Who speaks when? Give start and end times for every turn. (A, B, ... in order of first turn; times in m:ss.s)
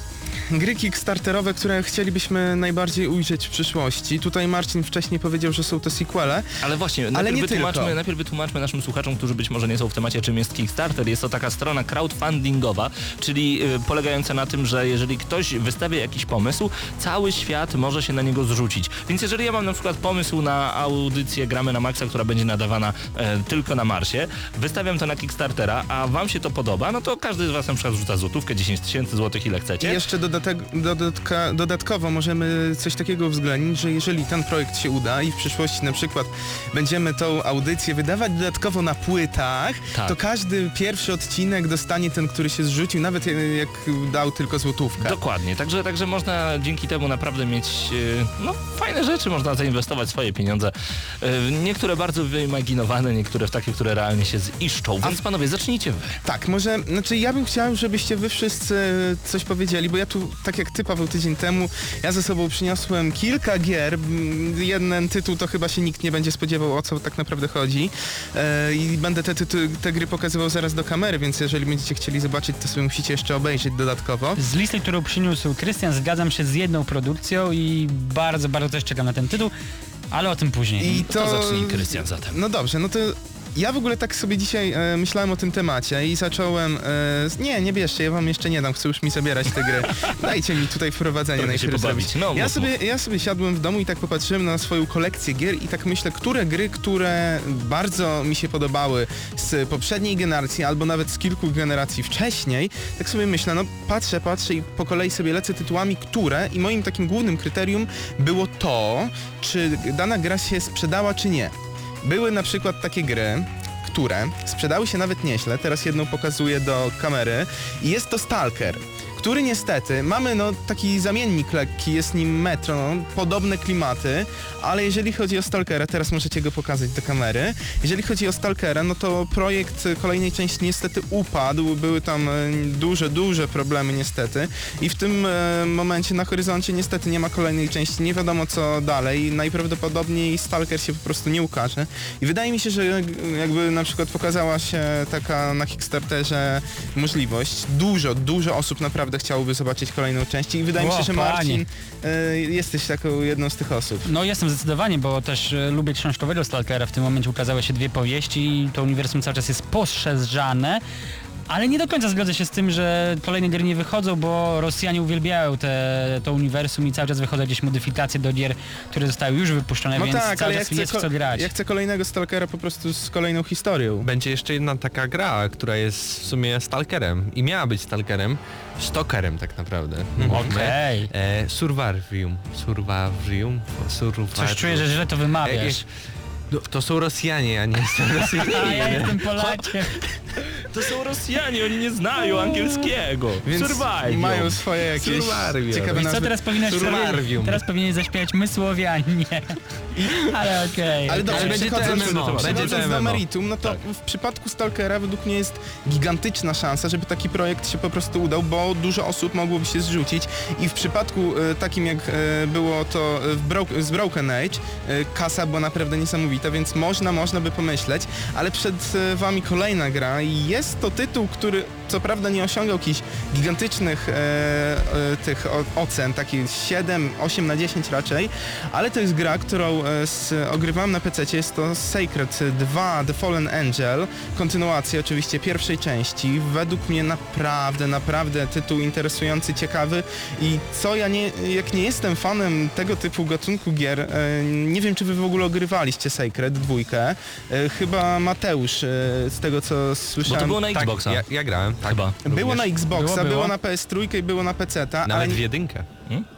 0:00.5-0:06.5 A
0:06.6-0:30.0 B
0:07.1-0:08.0 A
0:29.8-0:45.2 A
0:45.0-0:56.2 B
0:56.2-1:14.4 A
1:14.4-1:19.5 C
1:20.1-1:21.0 C
1:20.8-2:34.1 A
1:21.1-1:22.4 B
1:31.4-1:32.7 B
2:30.8-2:31.6 C
2:34.0-2:40.8 C
2:41.5-2:51.5 C
2:49.9-2:54.1 A
2:54.0-3:05.9 D
3:00.2-3:00.5 A
3:00.3-3:01.1 C
3:04.3-3:05.8 C
3:06.5-3:09.2 D
3:08.4-3:10.0 C
3:10.6-3:14.6 B
3:13.4-3:17.2 A
3:15.0-3:17.6 D
3:15.9-3:21.7 C
3:20.0-3:20.3 A
3:21.1-4:10.6 A
3:21.3-3:23.2 D
3:21.3-3:22.9 B
4:10.2-4:11.2 B
4:10.7-4:12.5 D
4:11.8-4:12.2 B
4:12.2-4:15.4 A
4:12.9-4:13.5 C
4:15.0-4:15.8 D